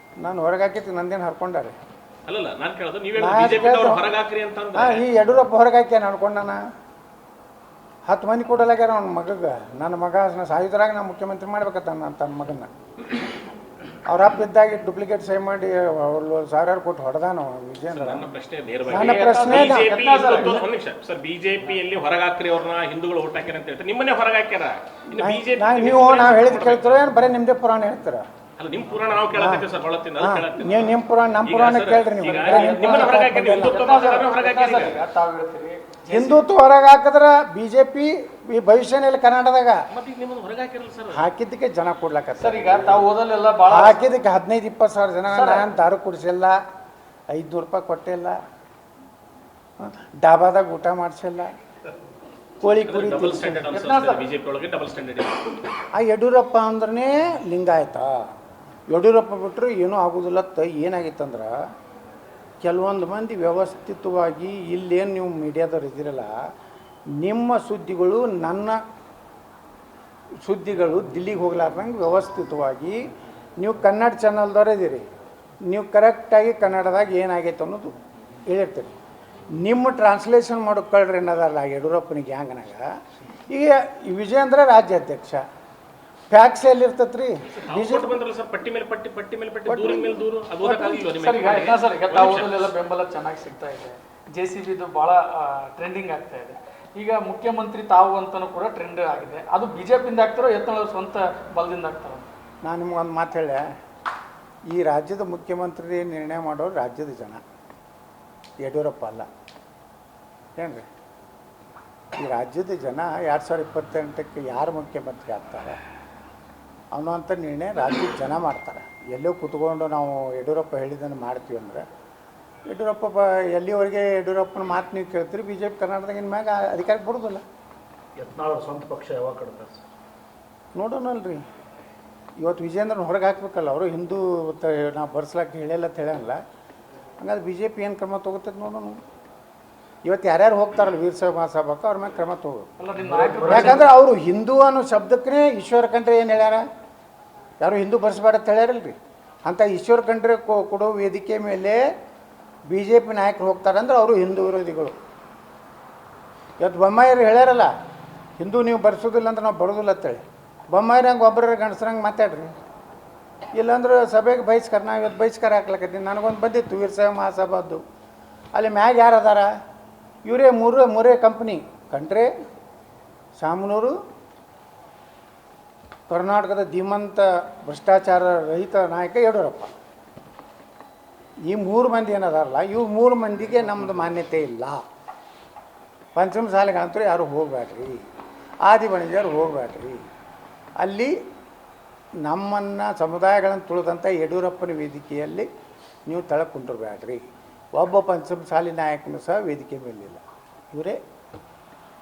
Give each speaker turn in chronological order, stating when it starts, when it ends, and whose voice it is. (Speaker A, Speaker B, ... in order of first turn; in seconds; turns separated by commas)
Speaker A: 0.2-1.7, Speaker B: 2.2-5.0, Speaker A: 3.2-4.1, Speaker A: 4.7-6.6, Speaker A: 8.1-12.7, Speaker A: 14.1-18.2, Speaker B: 17.9-27.1, Speaker A: 18.9-19.9, Speaker C: 18.9-20.6, Speaker A: 25.1-28.2, Speaker B: 28.6-35.0, Speaker A: 29.3-29.6, Speaker A: 30.2-33.8, Speaker C: 32.2-36.4, Speaker A: 36.1-39.8, Speaker B: 39.9-41.2, Speaker A: 41.1-43.0, Speaker C: 42.4-44.0, Speaker A: 43.7-46.6, Speaker C: 45.3-45.7, Speaker A: 47.3-48.4, Speaker A: 49.8-51.5, Speaker A: 52.6-53.7, Speaker B: 52.8-55.6, Speaker C: 53.7-54.2, Speaker A: 55.9-58.2, Speaker A: 58.9-61.5, Speaker A: 62.6-66.3, Speaker A: 67.1-68.8, Speaker A: 70.4-73.0, Speaker A: 73.6-75.0, Speaker A: 75.7-77.9, Speaker A: 78.5-78.9, Speaker A: 79.6-82.8, Speaker A: 83.5-85.4, Speaker A: 86.3-88.2, Speaker B: 87.6-92.7, Speaker A: 89.7-90.2, Speaker C: 90.6-102.3, Speaker A: 102.6-103.6, Speaker A: 104.7-107.4, Speaker A: 108.6-109.3, Speaker A: 110.6-110.8, Speaker A: 112.2-115.8, Speaker A: 116.9-121.8, Speaker A: 122.7-127.4, Speaker D: 128.2-129.8, Speaker A: 130.7-131.4, Speaker A: 132.4-136.4, Speaker A: 137.2-139.0, Speaker A: 140.1-142.7, Speaker C: 142.8-143.9, Speaker D: 143.0-143.8, Speaker A: 143.5-146.6, Speaker A: 147.6-151.8, Speaker A: 152.7-154.9, Speaker A: 156.6-157.7, Speaker A: 158.4-162.5, Speaker A: 163.5-167.8, Speaker A: 168.5-169.5, Speaker A: 170.2-172.3, Speaker A: 173.4-173.9, Speaker A: 176.1-179.7, Speaker A: 181.5-184.8, Speaker A: 186.1-188.0, Speaker A: 188.6-190.0, Speaker A: 190.8-191.1, Speaker A: 192.2-195.5, Speaker A: 196.1-197.2, Speaker A: 197.8-201.0